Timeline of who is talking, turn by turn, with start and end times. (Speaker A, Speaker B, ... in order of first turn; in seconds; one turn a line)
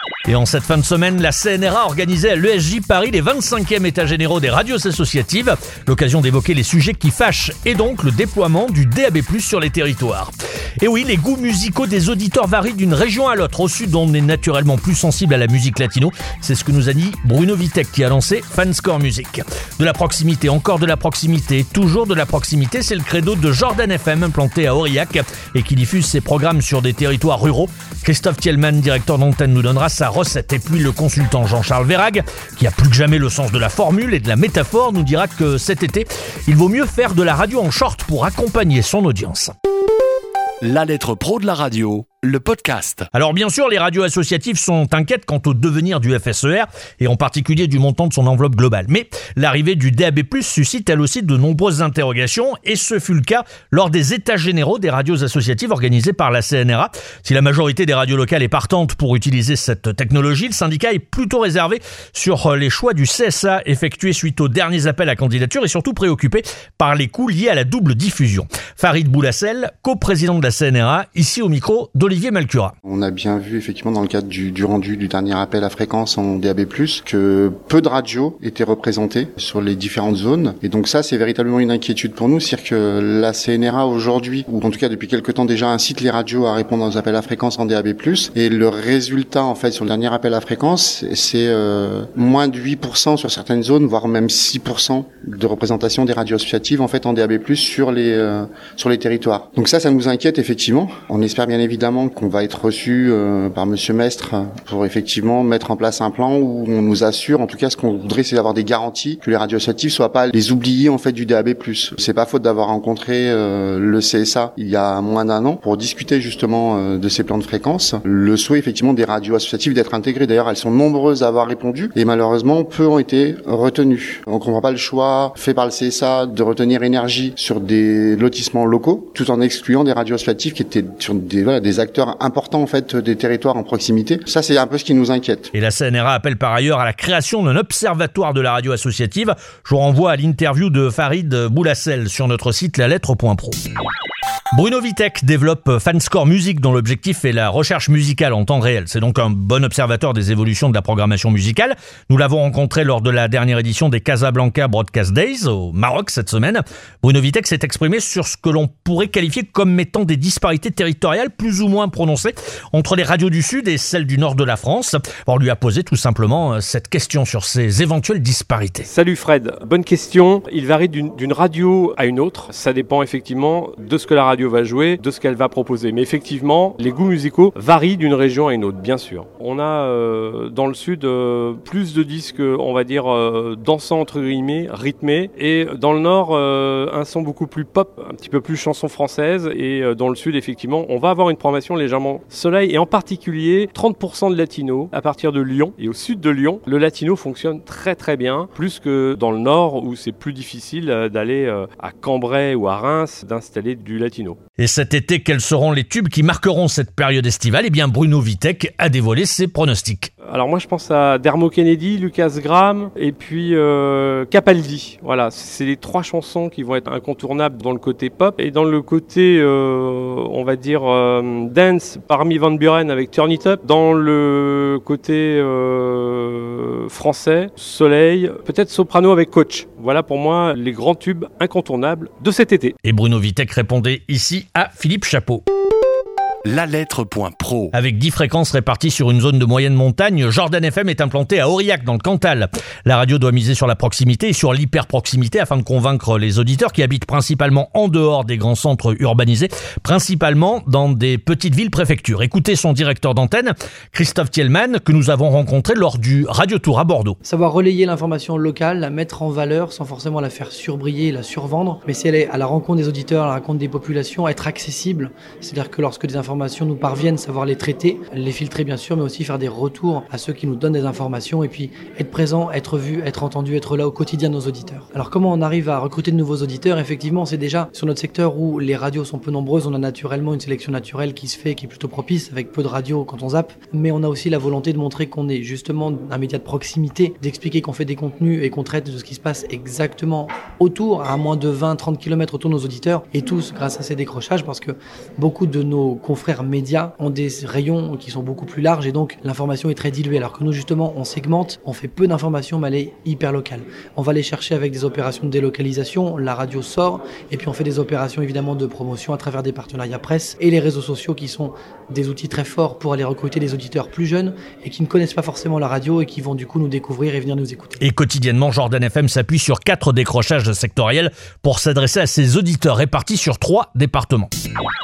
Speaker A: 0.3-39.5
Speaker B: 40.6-43.1
Speaker A: 43.1-72.7
Speaker C: 72.8-135.5
Speaker A: 135.5-143.6
Speaker A: 144.5-168.9
Speaker D: 168.9-204.4
Speaker A: 204.6-210.1
Speaker D: 210.3-232.8
Speaker A: 232.8-235.4
Speaker B: 236.4-237.7
Speaker A: 237.7-257.2
Speaker E: 257.2-317.8
Speaker A: 317.8-324.3